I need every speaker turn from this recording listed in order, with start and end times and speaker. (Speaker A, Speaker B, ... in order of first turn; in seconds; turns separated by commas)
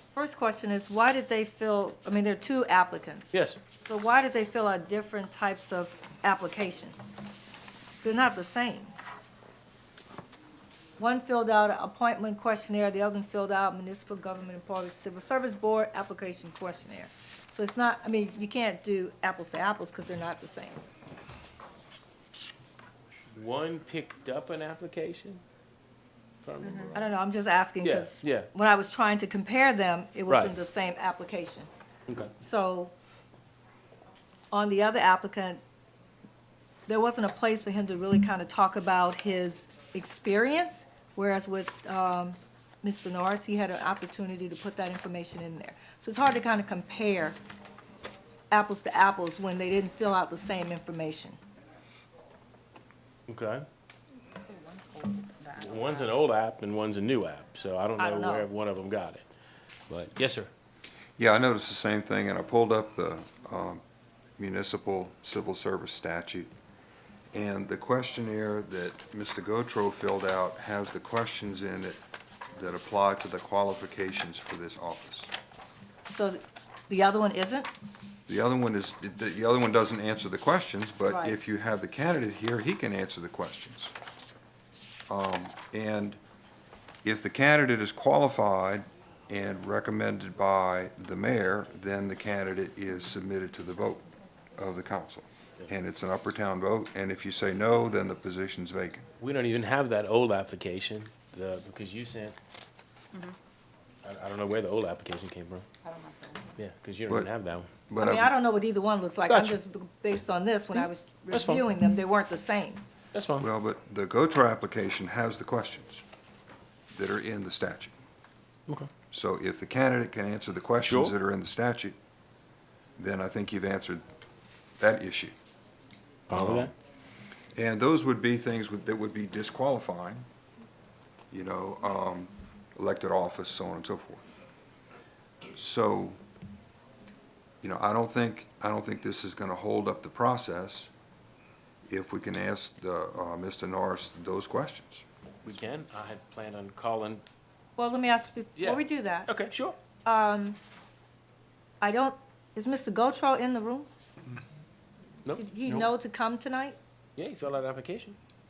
Speaker A: 0.1-7.0, Speaker B: 3.3-3.6, Speaker A: 8.0-8.9, Speaker A: 11.0-20.8, Speaker B: 23.3-25.4, Speaker B: 26.4-27.1, Speaker C: 26.6-26.9, Speaker A: 26.9-31.7, Speaker B: 27.8-28.5, Speaker A: 32.4-32.9, Speaker A: 34.5-35.6, Speaker A: 36.9-47.4, Speaker A: 48.5-51.4, Speaker B: 53.3-53.6, Speaker C: 54.3-56.1, Speaker B: 55.6-59.2, Speaker A: 58.0-58.5, Speaker B: 59.9-60.5, Speaker D: 61.2-63.8, Speaker D: 64.4-66.5, Speaker D: 67.3-72.0, Speaker D: 72.5-75.3, Speaker A: 76.1-77.7, Speaker D: 78.3-83.9, Speaker A: 81.1-81.3, Speaker D: 85.1-86.2, Speaker D: 87.0-94.0, Speaker D: 94.6-99.0, Speaker B: 99.2-102.3, Speaker B: 104.0-105.6, Speaker C: 105.8-106.5, Speaker B: 106.6-107.7, Speaker D: 107.9-108.3, Speaker A: 108.0-112.8, Speaker B: 109.3-109.5, Speaker B: 110.8-111.6, Speaker B: 113.1-113.5, Speaker D: 113.4-116.0, Speaker D: 116.9-117.9, Speaker D: 119.1-122.0, Speaker B: 120.8-121.1, Speaker D: 123.0-124.0, Speaker D: 124.8-125.3, Speaker B: 126.3-126.7, Speaker D: 127.5-130.3, Speaker D: 131.3-134.2, Speaker D: 135.5-136.2, Speaker D: 137.6-140.9, Speaker D: 141.9-145.0, Speaker B: 145.4-147.2, Speaker A: 147.8-149.3, Speaker B: 148.6-149.8, Speaker A: 150.0-150.6, Speaker A: 151.8-153.9, Speaker B: 155.2-155.9, Speaker A: 155.4-156.8, Speaker B: 157.2-158.2